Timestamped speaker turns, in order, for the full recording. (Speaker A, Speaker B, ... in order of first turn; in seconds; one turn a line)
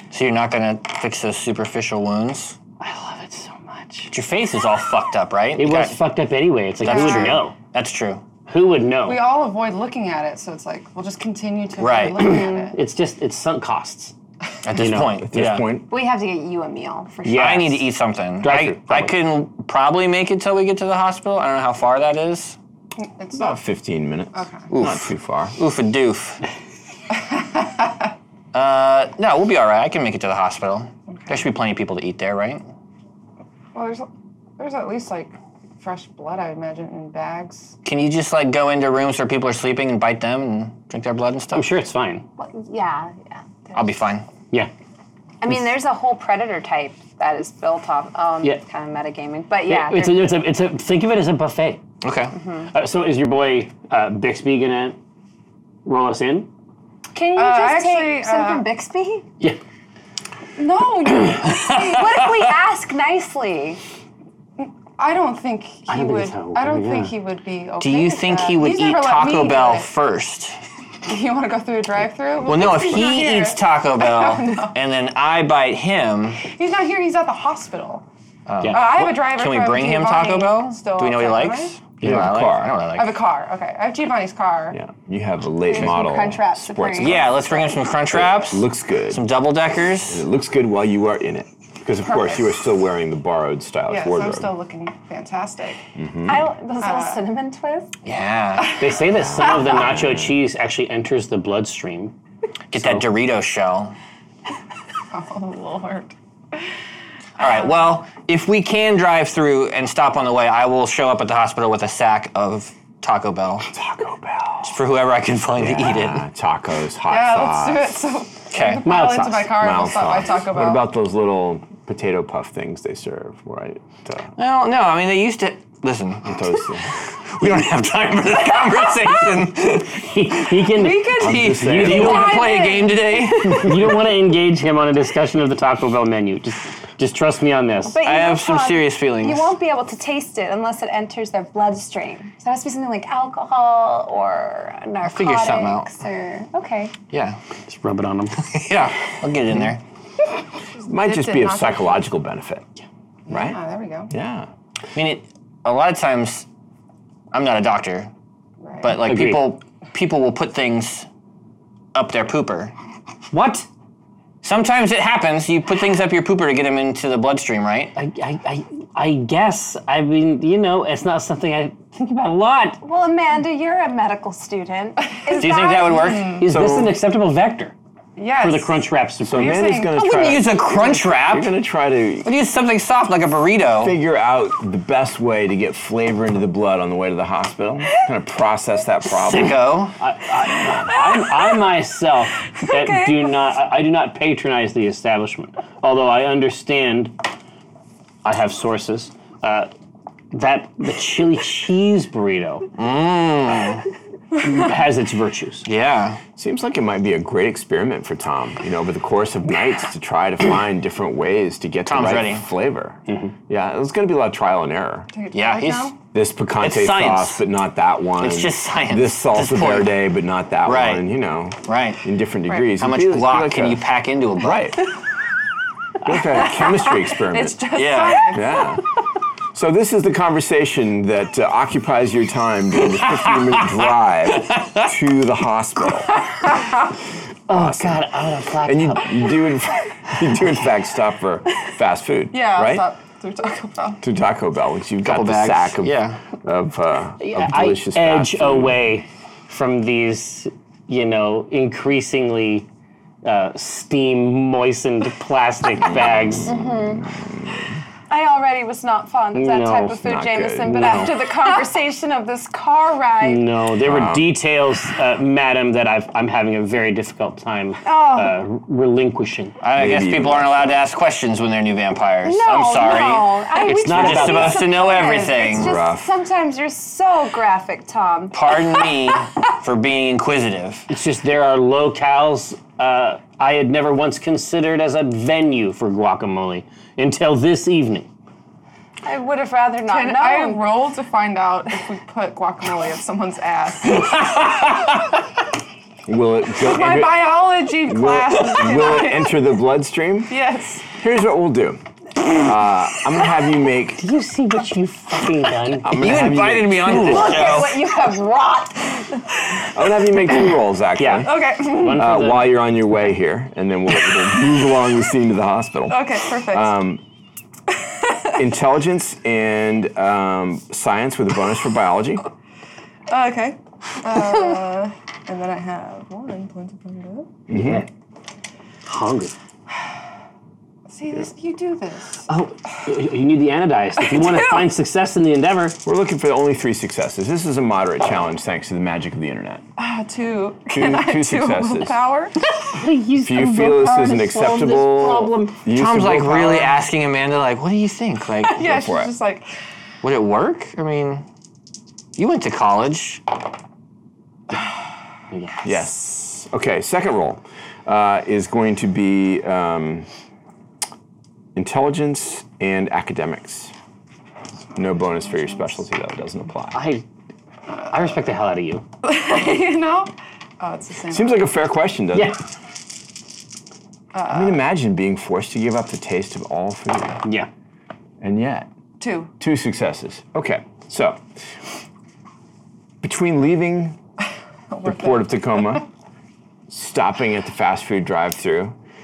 Speaker A: 0.1-2.6
Speaker B: 2.8-4.1
Speaker A: 4.1-6.0
Speaker B: 5.5-7.5
Speaker A: 6.8-8.2
Speaker C: 6.8-7.4
Speaker B: 8.5-9.2
Speaker C: 9.0-12.8
Speaker A: 11.8-12.3
Speaker B: 12.2-14.1
Speaker D: 12.3-12.7
Speaker A: 14.6-15.7
Speaker B: 14.7-15.6
Speaker E: 15.2-15.9
Speaker D: 15.9-17.7
Speaker B: 17.2-17.8
Speaker A: 17.2-22.6
Speaker B: 18.4-19.2
Speaker C: 23.0-23.6
Speaker E: 23.3-25.6
Speaker C: 24.3-24.6
Speaker A: 24.7-26.4
Speaker A: 28.5-32.6
Speaker C: 31.1-31.4
Speaker C: 33.7-37.7
Speaker A: 37.8-41.7
Speaker B: 41.5-42.2
Speaker D: 42.4-43.9
Speaker A: 43.7-44.3
Speaker D: 45.4-50.3
Speaker B: 49.6-51.8
Speaker A: 52.0-52.3
Speaker D: 52.3-52.7
Speaker B: 52.7-55.0
Speaker B: 55.8-56.5
Speaker D: 57.1-59.3
Speaker C: 57.4-58.6
Speaker C: 60.6-62.2
Speaker B: 61.4-61.9
Speaker D: 61.7-63.8
Speaker C: 64.6-69.9
Speaker B: 65.9-67.1
Speaker A: 67.8-70.6
Speaker C: 71.0-74.8
Speaker A: 72.4-76.4
Speaker C: 76.4-78.0
Speaker A: 78.5-83.2
Speaker B: 78.6-79.0
Speaker C: 78.7-81.7
Speaker B: 82.0-82.3
Speaker E: 82.0-82.7
Speaker C: 83.0-84.8
Speaker E: 84.7-87.4
Speaker D: 85.7-87.7
Speaker A: 87.0-90.2
Speaker E: 88.1-89.2
Speaker E: 90.1-94.5
Speaker C: 92.0-92.5
Speaker C: 93.9-95.8
Speaker E: 96.0-96.4
Speaker D: 96.3-97.9
Speaker C: 96.8-97.2
Speaker A: 98.0-98.8
Speaker B: 98.8-102.1
Speaker E: 99.1-100.4
Speaker A: 102.7-103.9
Speaker B: 102.7-103.0
Speaker C: 105.1-106.1
Speaker A: 107.4-113.7
Speaker C: 107.4-107.7
Speaker E: 113.7-114.7
Speaker A: 114.6-116.2
Speaker E: 115.5-118.0
Speaker C: 117.1-120.8
Speaker A: 118.5-118.8
Speaker B: 118.8-119.5
Speaker E: 119.5-124.3
Speaker A: 124.4-126.4
Speaker E: 126.2-126.9
Speaker A: 127.1-133.8
Speaker B: 129.9-132.4
Speaker C: 130.7-133.6
Speaker E: 131.2-132.4
Speaker B: 133.4-138.0
Speaker D: 137.9-146.9
Speaker A: 138.0-139.5
Speaker A: 145.0-145.9
Speaker A: 147.1-147.4
Speaker B: 147.7-148.5
Speaker A: 148.4-149.8
Speaker C: 150.7-152.0
Speaker E: 150.9-152.7
Speaker C: 153.3-154.1
Speaker E: 153.3-153.6
Speaker E: 154.1-154.5
Speaker A: 154.9-156.4
Speaker A: 157.3-158.1
Speaker C: 158.6-159.0
Speaker A: 158.8-161.1
Speaker B: 159.0-159.5
Speaker A: 161.9-162.7
Speaker B: 163.3-163.7
Speaker A: 164.4-167.9
Speaker B: 167.9-172.8
Speaker D: 172.8-176.3
Speaker C: 175.3-176.4
Speaker A: 175.3-176.5
Speaker B: 176.4-177.7
Speaker E: 176.4-176.9
Speaker C: 178.2-180.0
Speaker B: 178.4-179.5
Speaker E: 179.2-182.3
Speaker A: 179.9-181.6
Speaker A: 182.2-183.9
Speaker E: 183.8-189.6
Speaker A: 189.2-189.9
Speaker B: 190.0-197.1
Speaker C: 192.6-193.2
Speaker B: 198.2-199.7
Speaker B: 200.3-202.7
Speaker A: 202.8-203.8
Speaker B: 204.3-205.7
Speaker A: 205.6-206.2
Speaker E: 206.3-215.1
Speaker A: 211.8-212.4
Speaker B: 213.1-213.3
Speaker C: 215.1-215.9
Speaker A: 215.3-215.9
Speaker E: 216.1-223.8
Speaker A: 216.6-217.4
Speaker A: 218.2-220.0
Speaker A: 220.6-221.0
Speaker A: 221.6-222.0
Speaker A: 222.8-224.9
Speaker E: 224.4-224.9
Speaker E: 226.0-227.6
Speaker C: 226.6-228.8
Speaker A: 227.7-228.4
Speaker E: 228.3-228.9
Speaker E: 229.5-236.3
Speaker A: 234.4-234.8
Speaker B: 237.5-239.3
Speaker E: 237.5-242.8
Speaker C: 242.3-244.0
Speaker E: 244.0-248.8
Speaker A: 245.0-246.2
Speaker B: 247.2-252.7
Speaker B: 253.2-256.6
Speaker E: 255.8-257.7
Speaker D: 256.4-257.1
Speaker D: 258.1-263.5
Speaker B: 259.3-259.9
Speaker E: 259.8-261.1
Speaker B: 260.6-261.2
Speaker B: 263.2-269.6
Speaker E: 263.8-264.3
Speaker D: 267.8-268.4
Speaker A: 269.6-275.7
Speaker E: 269.7-270.7
Speaker D: 272.2-278.6
Speaker B: 273.6-274.7
Speaker C: 273.7-275.6
Speaker E: 275.5-276.1
Speaker A: 278.3-280.9
Speaker B: 280.9-288.1
Speaker D: 289.0-290.7
Speaker C: 289.9-294.2
Speaker E: 296.1-300.4
Speaker C: 296.6-299.4
Speaker C: 300.3-300.9
Speaker E: 300.9-304.0
Speaker B: 304.0-307.6
Speaker E: 305.8-307.3
Speaker A: 305.9-307.9
Speaker D: 306.9-309.2
Speaker E: 309.6-317.0
Speaker B: 311.0-312.6
Speaker C: 311.2-312.1
Speaker C: 315.9-316.7
Speaker C: 318.0-318.3
Speaker E: 318.4-322.2
Speaker C: 323.1-327.4
Speaker E: 327.5-327.8
Speaker B: 327.5-327.9
Speaker B: 328.9-329.3
Speaker C: 330.9-332.2
Speaker B: 332.3-335.8
Speaker C: 334.1-334.6
Speaker E: 335.8-339.6
Speaker C: 339.8-342.4
Speaker E: 340.7-342.0
Speaker B: 342.7-345.6
Speaker E: 343.2-346.7
Speaker A: 345.7-348.6
Speaker C: 348.4-349.4
Speaker E: 348.6-349.1
Speaker A: 350.0-351.2
Speaker A: 352.1-353.2
Speaker B: 355.3-355.6
Speaker E: 355.6-360.1
Speaker E: 361.5-363.7
Speaker E: 364.7-366.9
Speaker B: 366.7-367.0
Speaker B: 367.8-368.8
Speaker C: 369.0-371.5
Speaker E: 371.1-372.4
Speaker B: 372.1-372.4
Speaker C: 374.1-374.6
Speaker E: 374.3-377.2
Speaker E: 378.2-378.7
Speaker C: 379.0-379.3
Speaker E: 379.4-381.2
Speaker E: 383.0-384.0
Speaker C: 384.7-385.2
Speaker E: 384.8-385.9
Speaker E: 386.7-388.8